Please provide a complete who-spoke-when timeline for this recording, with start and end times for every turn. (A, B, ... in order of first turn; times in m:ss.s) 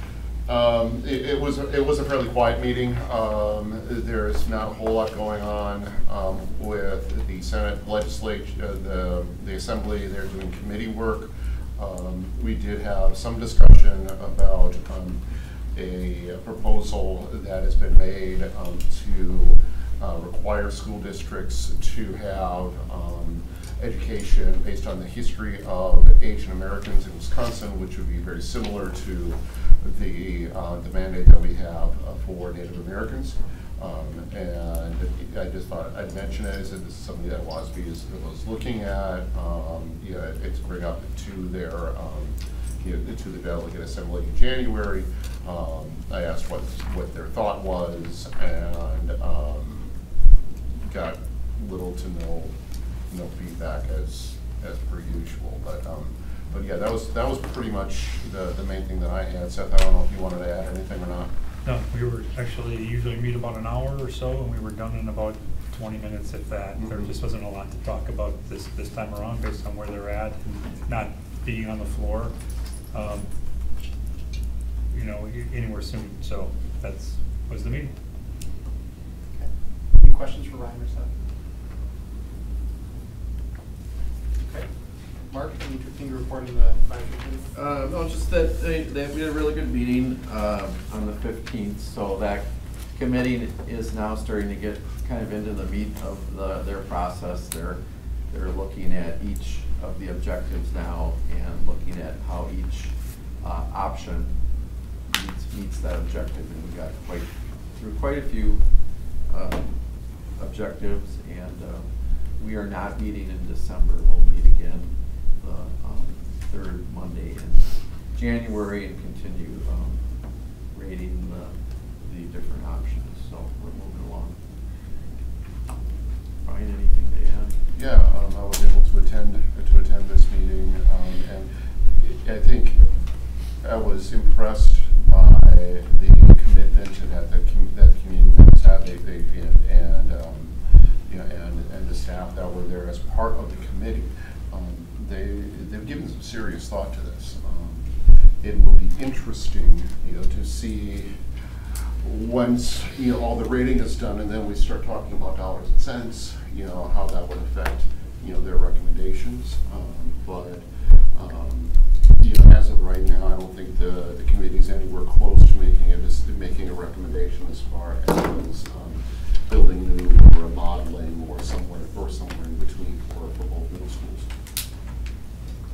0:00.4-0:50.0 A
0:50.8-1:01.3 A
1:01.6-1:12.3 B
1:06.8-1:07.0 A
1:12.9-1:13.3 B
1:14.9-1:17.9 B
1:19.3-1:21.1 C
1:24.4-1:27.5 C
1:27.5-2:04.5 D
2:06.4-2:07.6 D
2:07.7-2:31.4 A
2:32.0-2:54.3 A